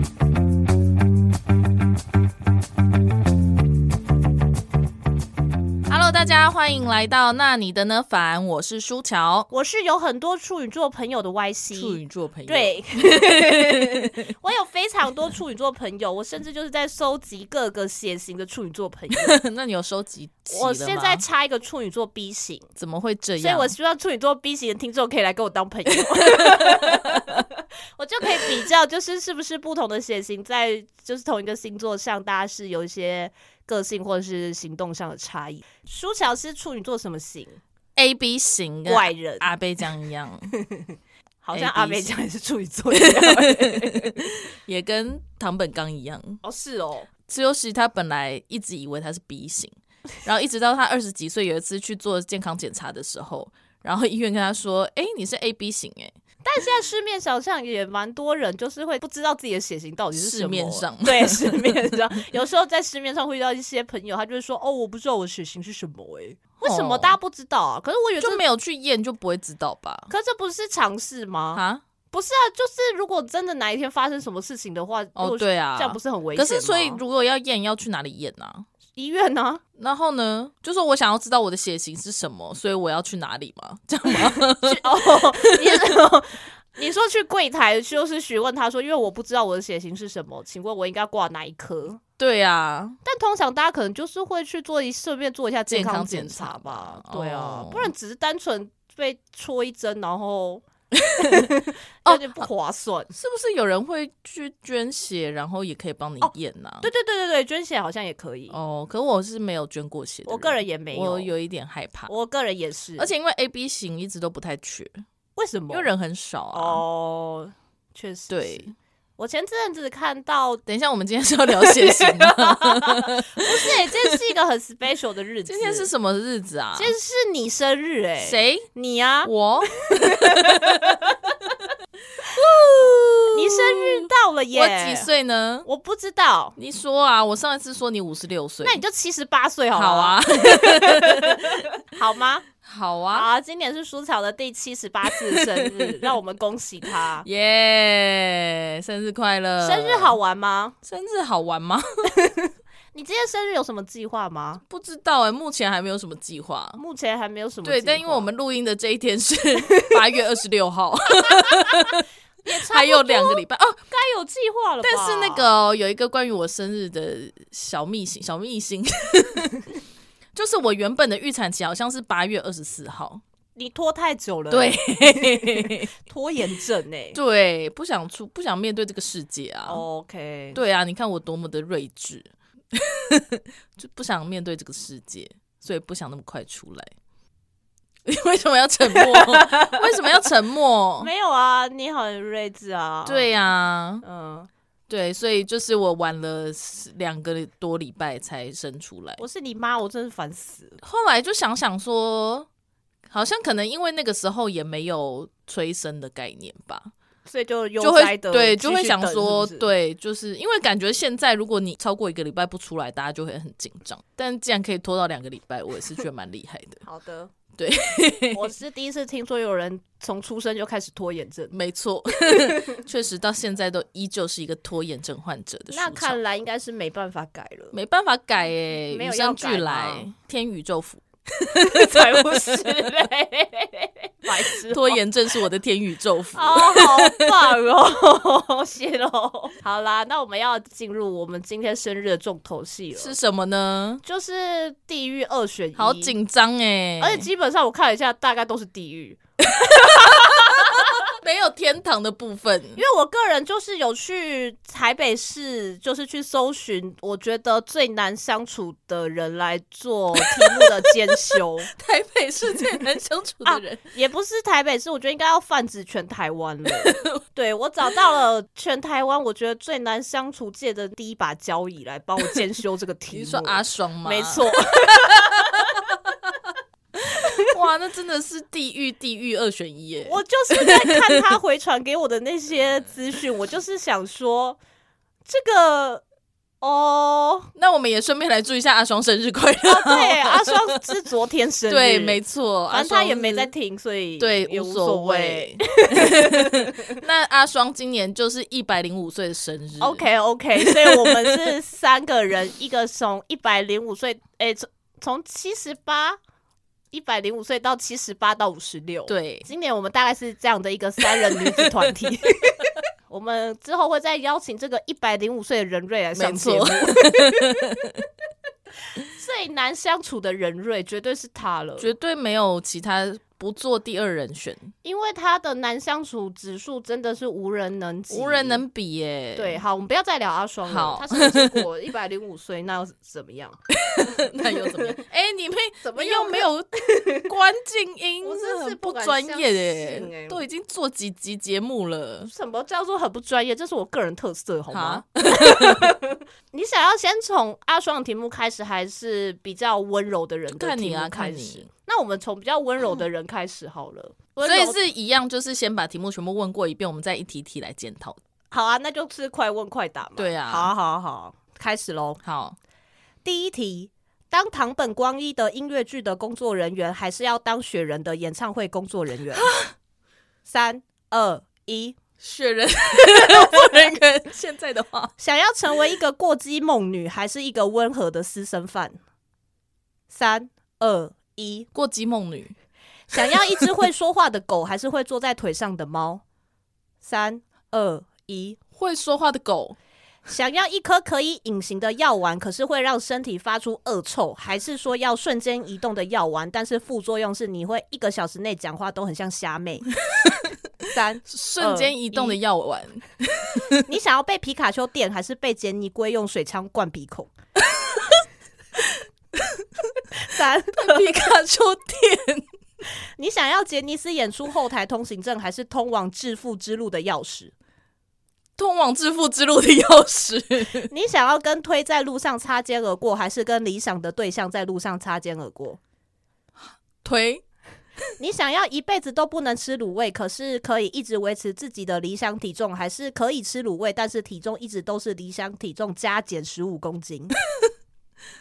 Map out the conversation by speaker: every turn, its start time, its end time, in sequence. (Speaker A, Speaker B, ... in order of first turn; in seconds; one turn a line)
Speaker A: 5.9-9.5
Speaker B: 9.5-19.4
Speaker A: 11.7-14.2
Speaker A: 19.1-21.2
Speaker B: 20.5-22.7
Speaker A: 22.8-23.7
Speaker B: 23.4-37.6
Speaker A: 26.4-27.2
Speaker A: 38.0-40.5
Speaker B: 38.8-39.5
Speaker B: 40.6-44.1
Speaker A: 41.5-42.1
Speaker A: 42.9-46.4
Speaker B: 46.4-47.1
Speaker A: 47.3-56.1
Speaker B: 56.4-68.4
Speaker A: 60.1-61.8
Speaker A: 66.6-67.1
Speaker A: 68.2-70.1
Speaker B: 70.1-77.0
Speaker A: 71.5-71.8
Speaker A: 75.2-78.7
Speaker B: 78.9-79.6
Speaker A: 79.8-85.5
Speaker B: 84.1-92.0
Speaker A: 92.2-93.0
Speaker B: 93.0-100.6
Speaker A: 95.7-97.9
Speaker A: 101.0-101.5
Speaker B: 101.2-103.1
Speaker A: 102.0-102.5
Speaker A: 103.1-106.9
Speaker B: 106.2-108.5
Speaker A: 108.5-112.1
Speaker B: 110.3-111.3
Speaker B: 112.1-113.1
Speaker A: 113.0-115.0
Speaker B: 115.3-115.9
Speaker A: 115.7-116.8
Speaker B: 116.5-118.7
Speaker A: 118.3-118.7
Speaker B: 119.2-120.6
Speaker A: 120.7-124.2
Speaker B: 121.5-125.9
Speaker A: 125.5-126.9
Speaker B: 126.8-129.3
Speaker A: 128.2-128.7
Speaker A: 129.2-131.0
Speaker B: 129.9-131.3
Speaker A: 132.2-135.7
Speaker B: 133.3-135.1
Speaker B: 135.6-136.6
Speaker A: 136.6-138.8
Speaker B: 138.6-142.4
Speaker A: 139.7-141.7
Speaker A: 142.6-143.3
Speaker B: 143.1-147.2
Speaker A: 145.3-145.9
Speaker A: 147.2-150.2
Speaker B: 149.6-150.8
Speaker A: 150.8-152.1
Speaker B: 152.2-154.6
Speaker A: 154.6-156.8
Speaker B: 156.8-158.3
Speaker A: 157.6-163.8
Speaker B: 159.7-160.0
Speaker B: 161.1-165.5
Speaker A: 164.8-169.6
Speaker A: 170.3-173.2
Speaker B: 173.6-177.2
Speaker A: 174.5-175.9
Speaker A: 177.1-179.8
Speaker B: 179.7-180.6
Speaker A: 180.5-186.9
Speaker A: 188.1-191.1
Speaker B: 188.9-189.8
Speaker B: 191.0-193.3
Speaker A: 193.0-194.0
Speaker B: 194.0-194.5
Speaker A: 194.9-199.2
Speaker B: 199.2-200.8
Speaker A: 200.8-202.5
Speaker A: 203.1-206.9
Speaker B: 207.2-209.7
Speaker A: 207.8-216.8
Speaker B: 216.8-217.3
Speaker A: 217.6-218.5
Speaker B: 218.3-221.5
Speaker A: 221.5-226.2
Speaker B: 222.2-222.8
Speaker B: 225.7-227.7
Speaker A: 227.7-232.6
Speaker B: 228.9-230.1
Speaker B: 231.6-235.0
Speaker A: 234.7-237.3
Speaker B: 236.3-243.2
Speaker A: 242.9-244.0
Speaker B: 244.0-246.1
Speaker A: 245.8-247.3
Speaker B: 247.0-251.1
Speaker A: 249.6-252.8
Speaker B: 252.8-261.7
Speaker A: 260.2-263.8
Speaker B: 262.5-262.8
Speaker B: 263.4-275.9
Speaker A: 266.7-267.2
Speaker A: 273.1-276.4
Speaker A: 277.0-281.2
Speaker B: 280.0-284.6
Speaker B: 285.2-286.0
Speaker B: 286.6-287.5
Speaker A: 287.6-290.8
Speaker B: 289.6-296.8
Speaker A: 291.7-293.5
Speaker A: 294.2-300.1
Speaker B: 299.8-306.2
Speaker A: 300.6-301.5
Speaker B: 306.9-317.8
Speaker A: 309.1-309.5
Speaker A: 311.6-311.9
Speaker A: 316.1-318.0
Speaker B: 319.0-321.9
Speaker A: 321.8-324.7
Speaker B: 324.8-328.6
Speaker A: 328.1-329.6
Speaker B: 329.4-333.6
Speaker A: 330.7-331.6
Speaker A: 333.8-342.3
Speaker B: 334.4-335.0
Speaker B: 335.8-337.2
Speaker B: 338.2-340.4
Speaker B: 342.2-354.8
Speaker A: 344.7-345.9
Speaker A: 350.5-351.7
Speaker A: 354.4-358.2
Speaker B: 358.5-362.2
Speaker A: 360.2-360.7
Speaker A: 362.2-362.6
Speaker B: 363.2-369.5
Speaker A: 369.4-369.7
Speaker B: 370.4-372.0
Speaker A: 372.2-375.1
Speaker B: 373.1-373.6
Speaker B: 375.2-379.0
Speaker B: 380.1-381.7
Speaker A: 381.7-382.5
Speaker B: 383.1-386.2
Speaker A: 383.2-383.6
Speaker B: 387.0-388.6
Speaker A: 388.8-389.8
Speaker B: 390.2-399.9
Speaker B: 400.9-402.4
Speaker A: 401.3-403.8
Speaker B: 403.8-407.3
Speaker A: 407.7-408.2
Speaker A: 409.4-409.6
Speaker B: 410.1-411.2
Speaker A: 410.7-412.4
Speaker B: 413.2-417.5
Speaker A: 418.6-420.9
Speaker B: 420.9-425.8
Speaker A: 426.6-427.4
Speaker B: 428.2-437.3